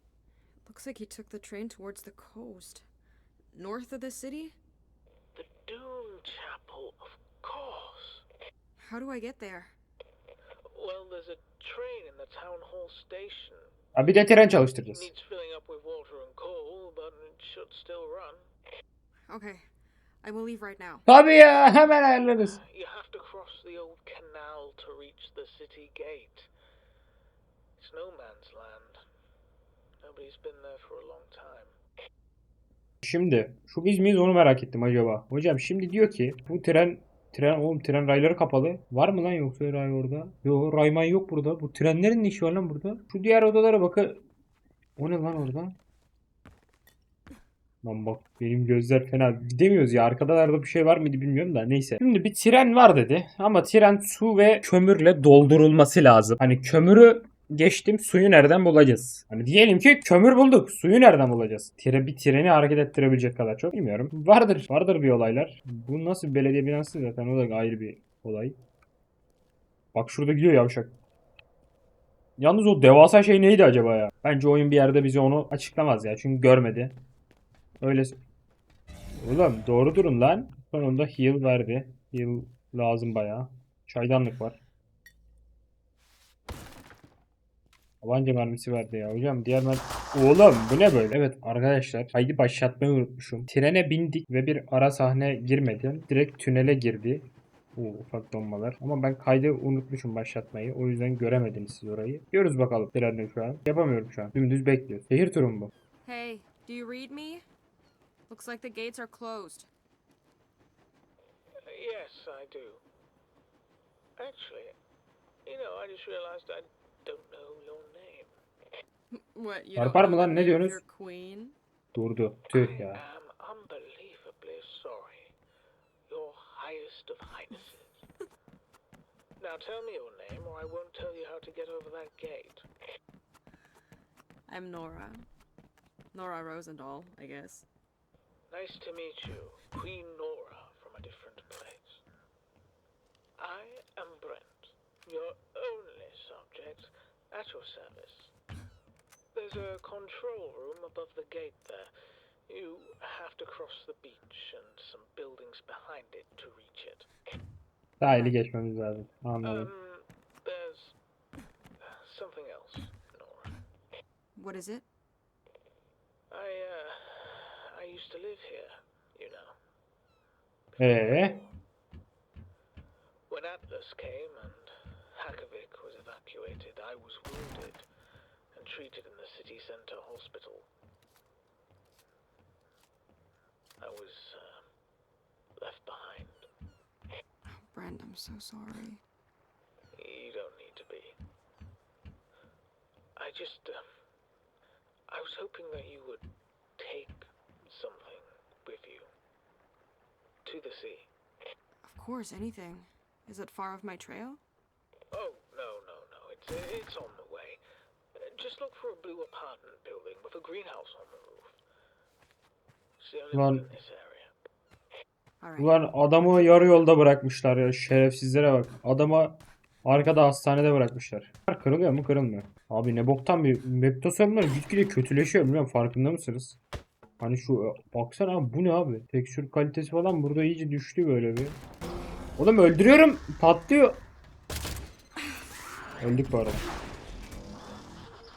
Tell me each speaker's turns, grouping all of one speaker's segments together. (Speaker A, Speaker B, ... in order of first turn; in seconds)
Speaker A: 0.6-2.9, 3.5-4.6, 8.8-9.8, 19.3-19.6, 20.2-21.1, 106.0-107.5, 108.3-109.7, 119.1-121.6, 134.5-135.3, 136.1-137.7, 158.1-158.4, 164.4-164.9, 187.6-189.0, 201.9-204.4, 215.4-215.7
Speaker B: 5.3-8.2, 10.7-13.7, 14.9-18.5, 22.4-26.5, 27.8-29.0, 30.0-31.8, 111.7-112.8, 114.2-114.8, 115.5-118.3, 122.5-125.3, 126.1-128.0, 129.4-132.7, 138.5-142.0, 143.4-148.3, 149.3-151.9, 152.5-157.1, 159.4-161.0, 161.8-163.6, 166.3-169.6, 170.8-171.5, 173.3-177.9, 178.5-180.7, 183.8-184.7, 185.6-186.5, 189.9-191.2, 193.2-193.8, 195.1-196.2, 196.8-199.1, 200.4-201.1, 205.1-207.6, 208.2-211.6, 213.0-214.3
Speaker C: 13.9-15.1, 21.1-22.6, 33.0-44.2, 45.0-45.8, 47.8-68.6, 69.9-71.0, 72.4-77.0, 77.8-78.2, 79.2-84.6, 88.0-105.7, 119.8-120.8, 121.9-123.0, 158.0-159.7, 170.8-171.4, 213.3-213.7, 215.6-226.6, 227.2-231.6, 232.4-234.0, 236.0-236.7